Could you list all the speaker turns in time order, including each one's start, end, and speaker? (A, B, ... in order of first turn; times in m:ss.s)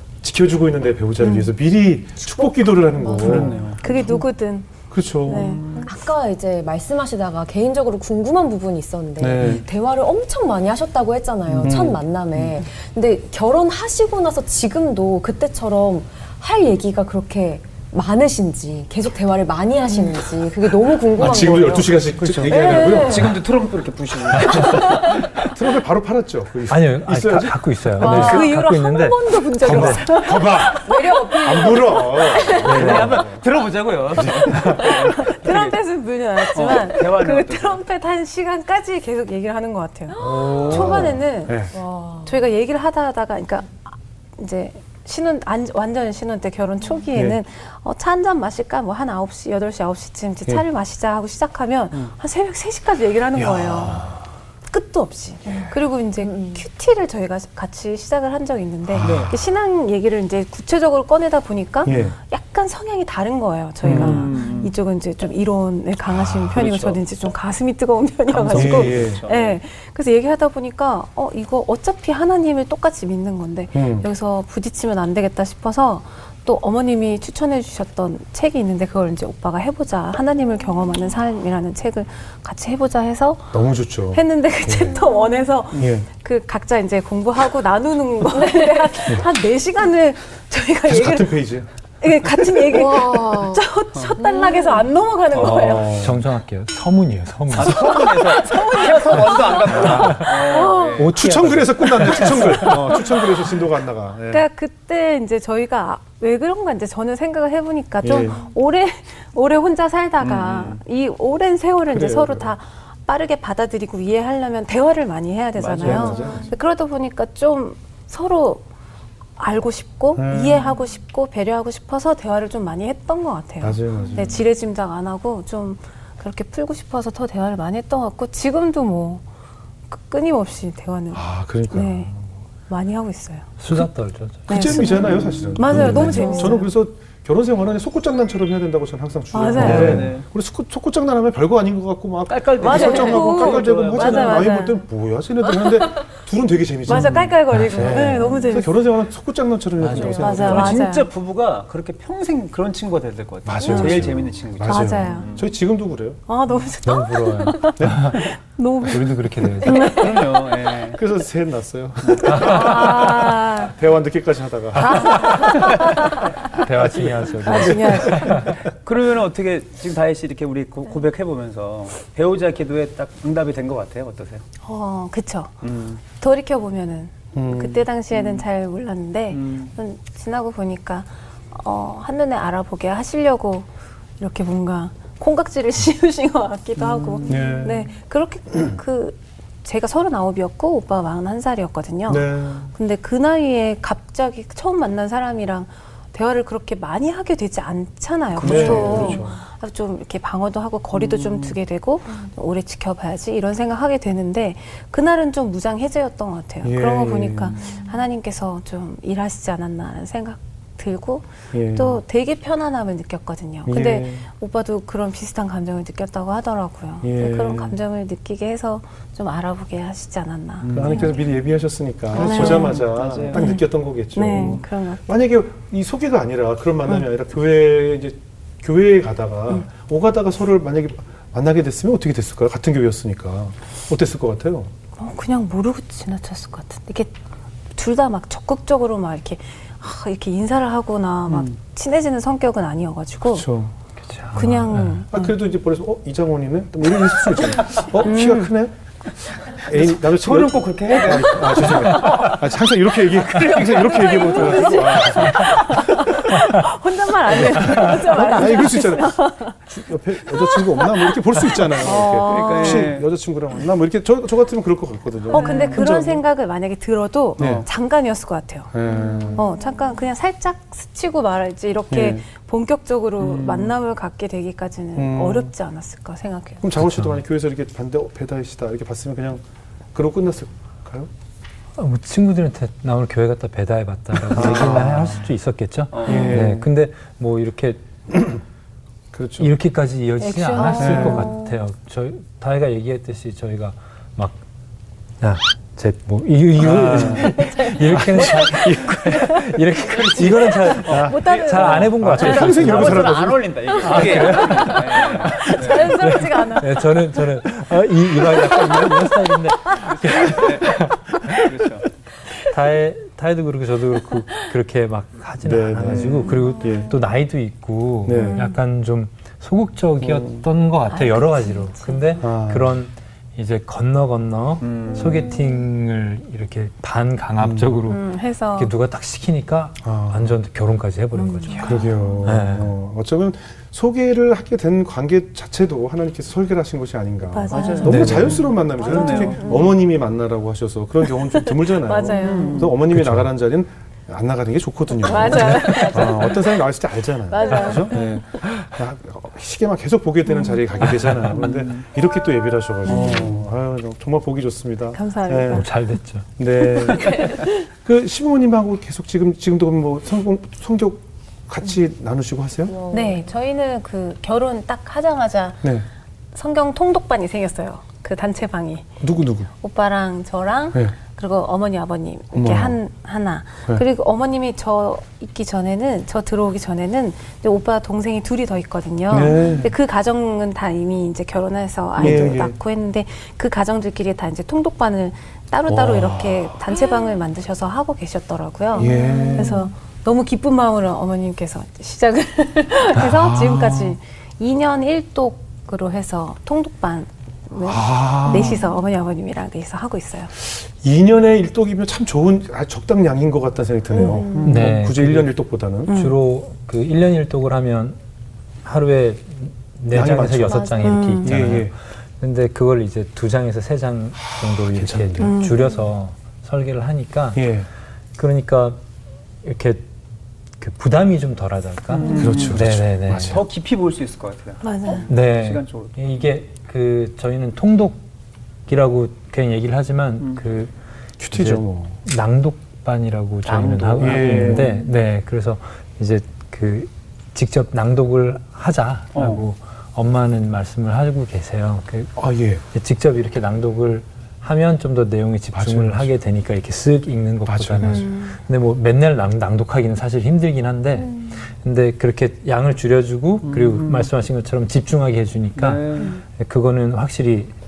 0:00.2-0:04.2 A
0:02.5-0:03.6 B
0:02.7-0:04.7 C
0:03.2-0:03.8 D
0:04.9-0:05.7 A
0:05.2-0:05.8 C
0:05.3-0:05.9 D
0:05.8-0:23.4 B
0:09.2-0:09.6 A
0:11.6-0:12.6 A
0:21.1-0:23.4 A
0:21.2-0:21.6 D
0:22.2-0:25.2 D
0:24.4-0:24.8 E
0:24.5-0:28.5 A
0:26.7-0:30.1 E
0:28.0-0:33.0 C
0:29.6-0:33.4 A
0:30.2-0:32.9 B
0:32.6-0:35.8 D
0:32.7-0:33.1 E
0:34.1-0:35.0 A
0:34.4-0:41.7 C
0:36.5-0:37.8 D
0:40.1-0:41.2 B
0:40.2-0:41.8 A
0:41.7-0:42.3 B
0:42.2-0:54.1 C
0:47.1-0:47.4 A
0:53.4-0:54.1 A
0:54.7-1:23.6 C
0:56.2-0:56.6 B
0:58.9-0:59.3 A
0:59.0-0:59.3 D
1:01.8-1:02.2 A
1:03.8-1:04.3 A
1:03.8-1:04.7 D
1:06.5-1:07.0 D
1:08.3-1:09.6 D
1:08.5-1:09.2 A
1:13.7-1:14.1 A
1:23.5-1:25.0 A
1:24.1-1:36.0 C
1:25.7-1:26.1 A
1:28.4-1:28.9 B
1:30.8-1:31.7 A
1:32.6-1:33.6 B
1:34.2-1:34.8 B
1:35.3-1:38.3 E
1:35.6-1:36.2 A
1:37.5-1:41.3 D
1:38.4-1:41.1 C
1:39.7-1:40.3 A
1:39.7-1:40.3 E
1:41.0-1:44.4 A
1:41.1-1:43.0 E
1:44.3-1:58.6 C
1:48.0-1:48.4 A
1:50.2-1:50.8 D
1:51.9-1:52.5 A
1:55.6-1:56.4 D
1:55.8-1:56.5 A
1:56.2-1:56.5 B
1:59.4-2:09.2 C
2:00.2-2:00.7 A
2:03.6-2:04.4 A
2:09.9-2:12.1 C
2:11.1-2:12.3 A
2:12.7-2:13.5 C
2:13.6-2:15.0 E
2:14.5-2:16.7 C
2:14.5-2:30.8 A
2:15.1-2:15.8 D
2:15.7-2:16.1 E
2:16.1-2:16.5 B
2:19.3-2:20.1 C
2:19.6-2:20.2 D
2:19.6-2:20.1 E
2:22.3-2:24.6 D
2:22.6-2:24.8 C
2:26.9-2:28.8 C
2:26.9-2:27.3 D
2:27.5-2:28.2 E
2:29.8-2:30.2 E
2:29.8-2:35.5 D
2:30.2-2:31.1 C
2:33.4-2:36.2 A
2:33.6-2:34.0 C
2:34.6-2:35.3 C
2:36.3-2:40.4 C
2:36.8-2:38.3 E
2:37.8-2:38.2 A
2:38.9-2:40.0 E
2:39.8-2:41.0 D
2:40.9-2:45.7 A
2:42.2-2:43.1 E
2:42.2-2:43.7 C
2:44.8-2:48.6 E
2:44.8-2:46.3 C
2:46.7-2:48.5 A
2:47.4-2:48.5 C
2:48.2-2:54.4 D
2:54.6-2:55.5 C
2:55.6-2:56.0 D
2:56.1-3:03.7 C
2:57.3-2:57.9 A
2:58.1-2:58.4 D
2:59.3-2:59.7 D
3:04.2-3:41.2 C
3:06.8-3:07.6 D
3:07.2-3:07.9 A
3:12.1-3:12.7 A
3:18.4-3:19.4 A
3:18.4-3:19.3 D
3:21.0-3:21.5 D
3:26.6-3:27.8 A
3:31.5-3:32.0 A
3:33.7-3:34.3 A
3:37.0-3:37.8 A
3:40.6-3:41.1 D
3:40.7-3:54.7 A
3:42.1-3:42.8 C
3:42.2-3:43.5 D
3:43.3-3:45.0 C
3:55.0-3:57.1 C
3:57.8-4:03.5 C
4:03.3-4:03.7 A
4:04.1-4:05.1 E
4:04.3-4:05.2 C
4:05.1-4:08.7 A
4:08.0-4:08.5 C
4:09.5-4:16.4 A
4:09.5-4:12.3 D
4:13.1-4:15.1 D
4:13.7-4:19.6 C
4:16.3-4:16.6 E
4:17.3-4:26.2 A
4:17.7-4:18.0 E
4:20.3-4:23.0 C
4:22.1-4:23.1 D
4:25.3-4:28.7 C
4:27.4-4:27.7 A
4:27.4-4:27.6 D
4:28.7-4:29.4 A
4:29.3-4:36.6 C
4:31.9-4:32.2 A
4:33.2-4:33.7 D
4:35.0-4:35.5 A
4:36.6-4:39.4 A
4:36.8-4:37.2 E
4:39.9-4:41.1 A
4:41.8-4:47.8 E
4:44.3-4:45.2 A
4:45.9-4:46.4 D
4:46.0-4:46.7 A
4:49.1-4:49.5 A
4:49.4-4:54.4 E
4:50.2-4:51.4 C
4:50.7-4:51.4 A
4:55.2-5:11.5 E
4:56.6-4:57.4 A
4:57.2-5:02.4 C
4:58.0-4:58.3 A
5:00.9-5:01.2 A
5:00.9-5:05.9 D
5:02.0-5:04.4 A
5:05.1-5:07.0 C
5:09.7-5:11.9 D
5:12.4-5:32.7 E
5:15.4-5:16.9 A
5:18.0-5:18.5 A
5:18.2-5:18.5 C
5:20.0-5:20.4 A
5:20.9-5:22.2 C
5:22.2-5:22.8 A
5:24.6-5:25.2 D
5:27.4-5:27.7 A
5:27.9-5:28.7 C
5:29.8-5:30.4 A
5:31.2-5:32.1 C
5:31.6-5:55.7 A
5:37.3-5:39.7 C
5:37.5-5:39.7 D
5:37.8-5:38.4 E
5:41.4-5:42.7 C
5:42.2-5:42.8 D
5:42.9-5:43.3 E
5:45.0-5:46.6 C
5:45.6-5:46.2 D
5:47.3-5:48.4 C
5:51.1-5:51.8 D
5:52.9-5:53.3 C
5:52.9-5:53.4 D
5:54.9-5:55.7 C
5:55.5-5:56.3 E
5:56.4-6:02.8 A
5:56.8-5:57.5 C
6:02.7-6:03.2 B
6:02.9-6:05.7 C
6:06.3-6:08.9 C
6:09.0-6:09.5 A
6:09.6-6:40.3 C
6:12.3-6:12.8 A
6:19.1-6:19.7 A
6:22.0-6:22.6 A
6:25.7-6:26.6 A
6:28.8-6:29.7 A
6:28.8-6:29.6 B
6:33.0-6:34.0 A
6:37.6-6:38.7 A
6:40.4-6:46.0 A
6:44.0-6:44.4 C
6:44.0-6:44.4 B
6:44.3-6:44.6 D
6:44.4-6:45.3 E
6:45.9-6:48.0 E
6:45.9-6:46.2 C
6:48.6-6:57.6 E
6:49.9-6:51.7 A
6:50.5-6:51.4 C
6:54.8-6:55.4 A
6:55.2-6:55.6 C
6:57.4-6:57.7 A
6:58.2-6:58.8 E
6:59.4-6:59.9 E
7:00.6-7:03.4 E
7:01.9-7:06.1 D
7:02.2-7:03.4 A
7:04.6-7:05.0 C
7:05.1-7:08.0 E
7:08.7-7:10.7 E
7:11.2-7:11.9 A
7:11.3-7:22.2 E
7:13.4-7:14.7 D
7:14.0-7:14.7 A
7:19.1-7:19.4 D
7:22.2-7:22.6 A
7:22.7-7:37.5 E
7:25.5-7:26.1 A
7:27.5-7:28.1 A
7:27.8-7:28.3 C
7:33.4-7:34.1 D
7:35.6-7:36.2 D